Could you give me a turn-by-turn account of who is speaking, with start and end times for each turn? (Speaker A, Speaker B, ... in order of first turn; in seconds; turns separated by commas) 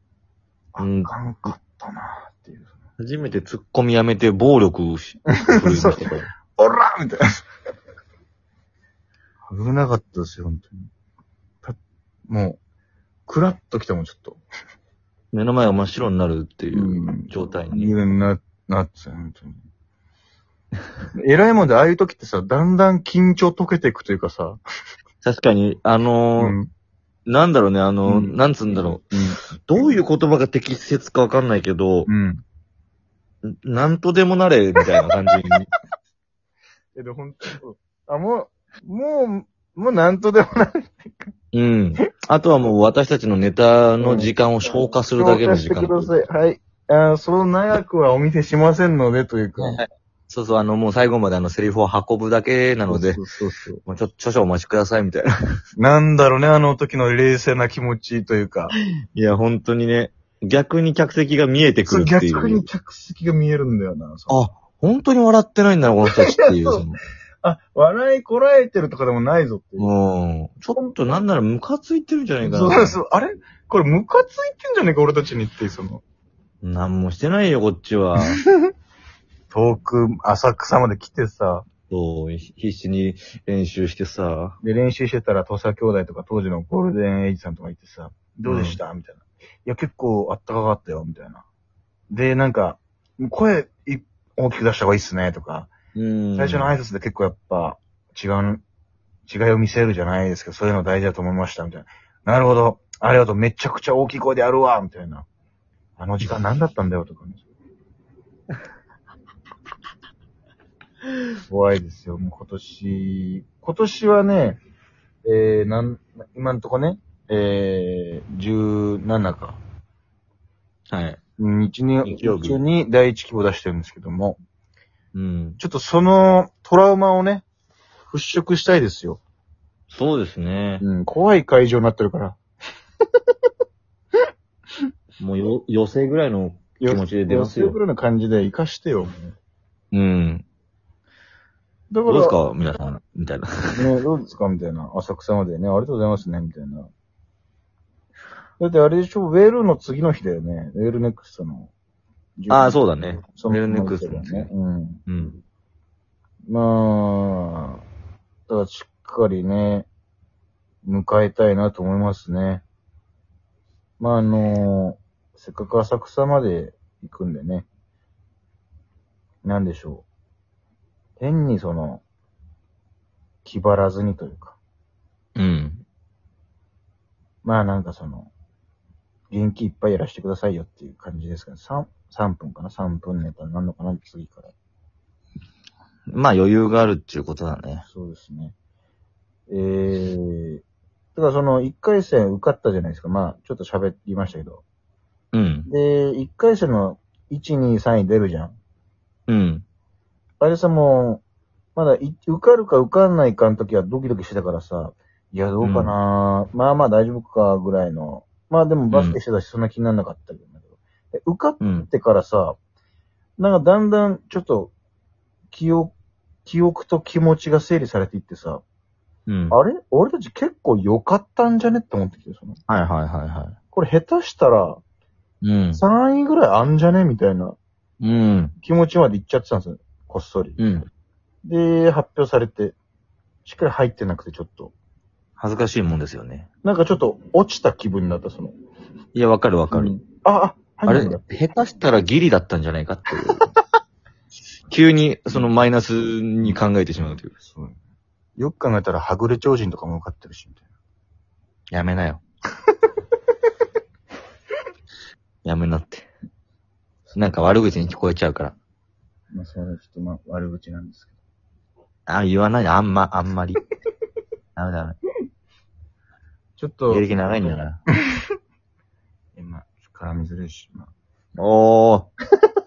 Speaker A: 0.7-2.8, Speaker B: 0.8-1.1, Speaker B: 3.0-6.3, Speaker A: 5.4-7.2, Speaker A: 9.5-10.9, Speaker A: 12.3-12.6, Speaker A: 13.3-14.4, Speaker B: 15.3-17.9, Speaker A: 16.7-19.6, Speaker A: 21.1-24.6, Speaker B: 25.2-26.6, Speaker A: 26.4-26.7, Speaker B: 27.3-29.0, Speaker A: 28.1-29.9, Speaker B: 29.5-32.1, Speaker A: 32.1-32.4, Speaker B: 33.4-35.7, Speaker A: 36.9-41.3, Speaker B: 41.5-46.1, Speaker A: 44.0-44.3, Speaker A: 44.9-49.8, Speaker B: 49.6-53.2, Speaker A: 52.9-53.8, Speaker B: 53.8-55.3, Speaker A: 55.8-58.7, Speaker B: 59.1-62.7, Speaker A: 61.9-64.4, Speaker B: 64.3-67.0, Speaker A: 66.0-66.8, Speaker A: 67.4-69.9, Speaker B: 69.8-73.0, Speaker A: 72.4-76.0, Speaker B: 76.6-78.4, Speaker A: 78.2-78.5, Speaker A: 79.5-81.7, Speaker B: 81.9-84.6, Speaker A: 84.6-91.4, Speaker B: 88.5-88.8, Speaker A: 92.1-95.7, Speaker B: 95.9-96.7, Speaker A: 96.3-98.6, Speaker A: 99.3-105.2, Speaker A: 106.0-107.4, Speaker A: 111.5-114.6, Speaker A: 115.2-119.6, Speaker B: 120.9-121.2, Speaker A: 121.4-124.4, Speaker B: 122.0-122.6, Speaker B: 125.1-125.6, Speaker A: 125.6-127.4, Speaker A: 128.1-129.2, Speaker B: 129.9-130.8, Speaker A: 130.8-132.4, Speaker B: 135.2-137.8, Speaker A: 136.8-139.3, Speaker B: 139.9-140.4, Speaker A: 141.9-142.4, Speaker B: 142.1-143.9, Speaker A: 143.7-146.9, Speaker A: 148.6-151.7, Speaker A: 152.4-155.0, Speaker B: 152.5-154.5, Speaker B: 155.1-155.4, Speaker A: 156.5-157.8, Speaker A: 158.5-159.9, Speaker A: 160.8-162.6, Speaker A: 164.0-167.7, Speaker A: 169.4-170.1, Speaker A: 171.2-172.0, Speaker A: 173.4-174.6, Speaker B: 175.3-175.8, Speaker A: 177.4-178.3, Speaker A: 179.3-184.5, Speaker B: 186.1-187.8, Speaker A: 187.8-188.5, Speaker A: 189.5-190.6, Speaker A: 191.1-194.6, Speaker B: 195.3-195.7, Speaker A: 195.7-198.5, Speaker B: 199.3-199.6, Speaker A: 200.4-201.2, Speaker A: 201.7-210.6, Speaker B: 205.6-205.9, Speaker B: 208.9-209.2, Speaker A: 211.1-212.6, Speaker B: 211.6-211.9, Speaker A: 213.4-214.7, Speaker A: 215.5-215.9, Speaker A: 216.4-218.6, Speaker B: 219.3-219.5, Speaker A: 219.5-222.6, Speaker B: 222.7-223.6, Speaker A: 223.7-224.8, Speaker B: 225.4-225.8, Speaker A: 225.7-227.6, Speaker B: 228.0-228.5, Speaker A: 228.6-230.6, Speaker B: 230.6-230.9, Speaker A: 231.4-232.8, Speaker A: 233.4-234.7, Speaker B: 235.4-236.5, Speaker A: 236.6-238.5, Speaker B: 239.1-239.9, Speaker A: 239.7-241.2, Speaker B: 240.9-243.5, Speaker B: 244.7-247.3, Speaker A: 247.3-247.8, Speaker A: 248.4-250.6, Speaker B: 251.7-252.2, Speaker B: 255.4-256.1, Speaker B: 257.1-258.6, Speaker A: 259.3-261.1, Speaker B: 262.1-263.6, Speaker B: 264.6-265.0, Speaker A: 266.6-267.7, Speaker B: 266.9-267.8, Speaker A: 269.4-270.9, Speaker B: 271.4-272.1